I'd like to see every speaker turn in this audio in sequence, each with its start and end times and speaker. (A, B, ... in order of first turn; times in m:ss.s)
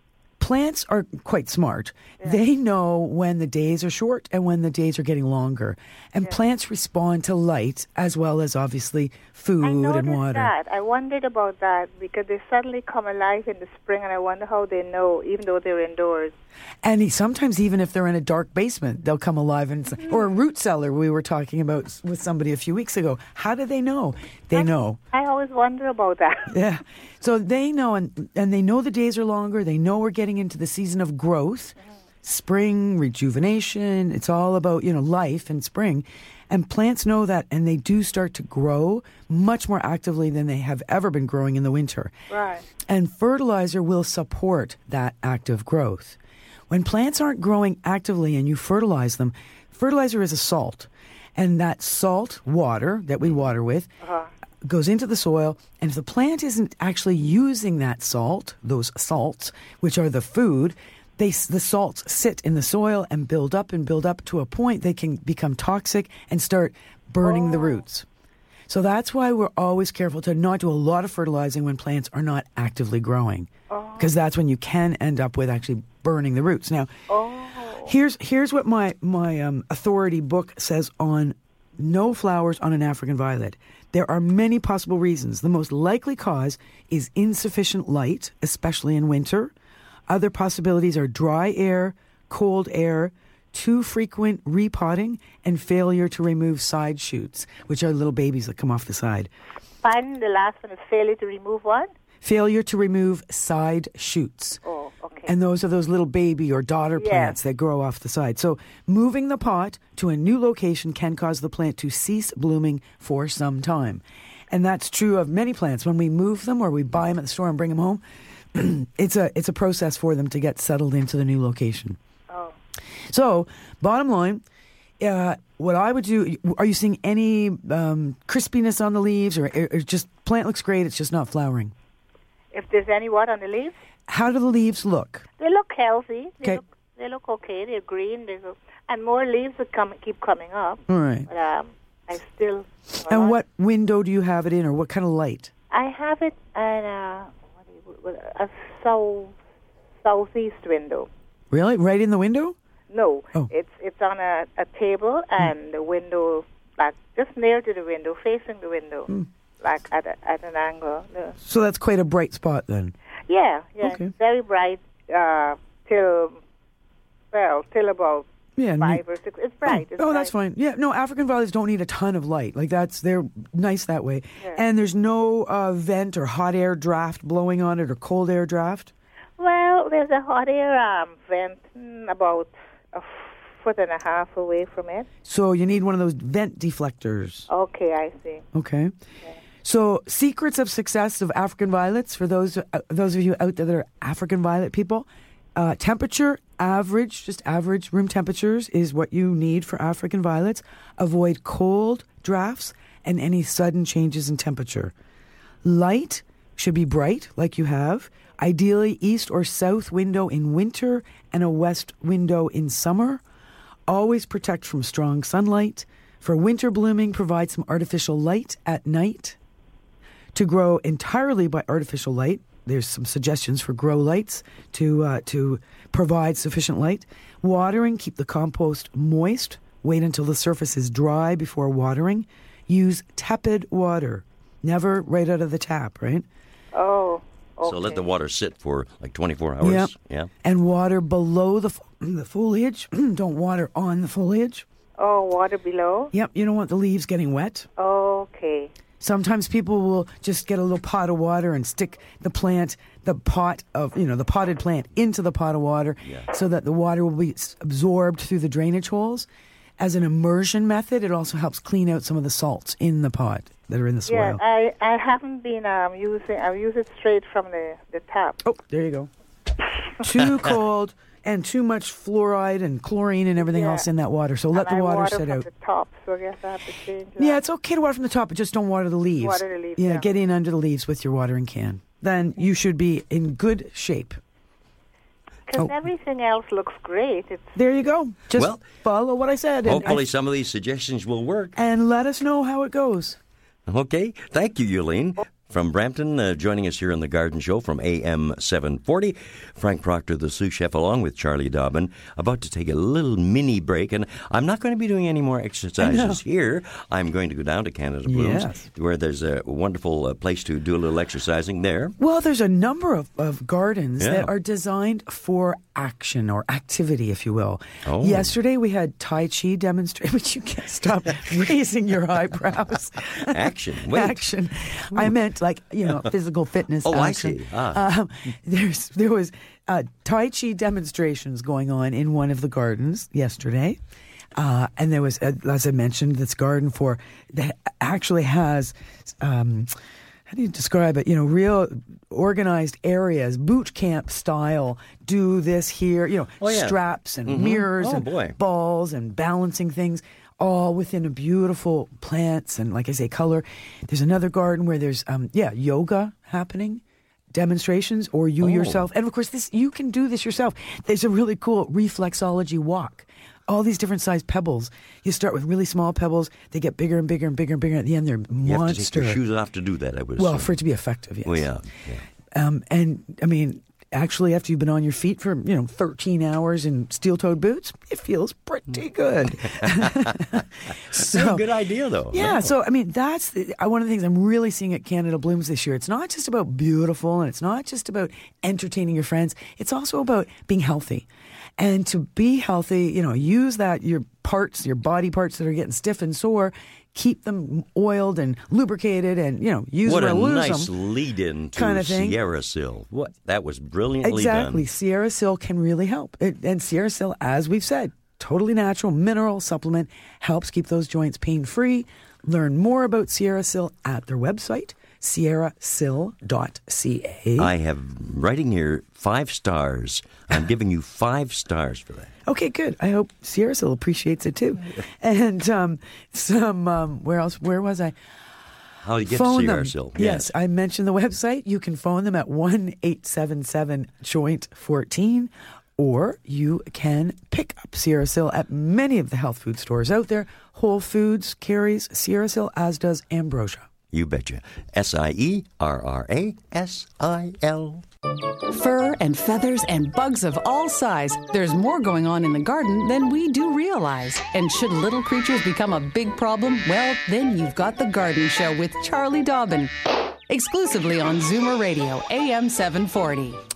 0:00.4-0:10.5 A
0:09.6-0:16.3 B
0:16.8-0:25.0 A
0:24.5-0:26.5 B
0:26.5-0:42.1 A
0:42.3-0:42.6 B
0:42.8-0:46.2 A
0:46.7-0:53.9 A
0:54.0-0:54.3 B
0:54.6-1:08.0 A
1:07.2-1:07.8 B
1:08.7-1:16.9 A
1:13.7-1:14.1 B
1:17.1-1:17.9 B
1:17.8-1:29.5 A
1:30.1-1:39.3 A
1:39.8-1:41.9 B
1:42.2-1:44.6 A
1:44.6-1:45.3 B
1:45.3-1:58.0 A
1:47.0-1:47.4 B
1:58.5-2:02.0 A
2:02.3-2:02.5 B
2:03.1-2:04.4 A
2:05.0-2:11.7 A
2:12.5-2:13.7 B
2:14.1-2:15.3 A
2:15.4-2:23.4 B
2:20.9-2:21.3 A
2:23.1-2:25.5 A
2:25.7-2:29.3 B
2:30.0-2:31.1 B
2:31.5-2:32.5 A
2:32.9-2:39.1 B
2:39.6-2:41.4 B
2:41.4-2:42.9 A
2:43.3-2:46.4 B
2:43.8-2:44.1 A
2:47.3-2:48.3 B
2:48.6-2:49.0 A
2:48.8-2:50.3 B
2:49.6-2:58.9 A
2:59.4-3:05.1 B
3:05.2-3:07.5 A
3:07.5-3:08.4 B
3:08.5-3:08.9 A
3:09.6-3:24.9 A
3:25.6-3:33.2 A
3:33.9-3:39.4 A
3:40.3-3:56.3 A
3:56.7-3:58.0 B
3:57.6-4:00.3 C
3:59.6-3:59.9 A
4:00.4-4:04.6 A
4:05.0-4:06.1 B
4:06.1-4:07.7 A
4:07.8-4:08.7 B
4:09.0-4:19.3 A
4:19.8-4:24.4 A
4:24.1-4:28.4 B
4:28.4-4:29.1 A
4:30.0-4:35.5 A
4:33.4-4:33.9 B
4:34.5-4:37.4 B
4:37.2-4:44.2 A
4:39.2-4:40.1 B
4:45.5-4:47.5 B
4:47.5-4:50.0 A
4:48.4-4:48.6 C
4:49.6-4:51.5 C
4:51.6-4:53.2 A
4:53.7-5:11.9 C
5:05.8-5:06.2 A
5:08.0-5:08.6 A
5:12.0-5:33.8 A
5:14.0-5:14.3 C
5:17.8-5:18.3 C
5:23.2-5:24.2 C
5:26.8-5:27.8 C
5:34.4-5:39.7 A
5:40.3-6:09.2 A
5:46.4-5:48.4 C
5:58.4-5:58.8 C
6:08.4-6:10.5 C
6:10.2-6:11.5 A
6:11.2-6:12.0 C
6:12.3-6:21.5 A
6:19.6-6:20.1 C
6:20.9-6:22.5 C
6:22.1-6:31.1 A
6:31.6-6:40.7 A
6:39.8-6:44.6 C
6:41.5-6:42.2 A
6:44.0-6:57.5 A
6:57.4-7:02.1 C
7:02.2-7:08.0 A
7:08.8-7:10.3 C
7:09.0-7:23.7 A
7:23.9-7:27.8 C
7:28.5-7:39.7 D
7:40.3-7:43.4 D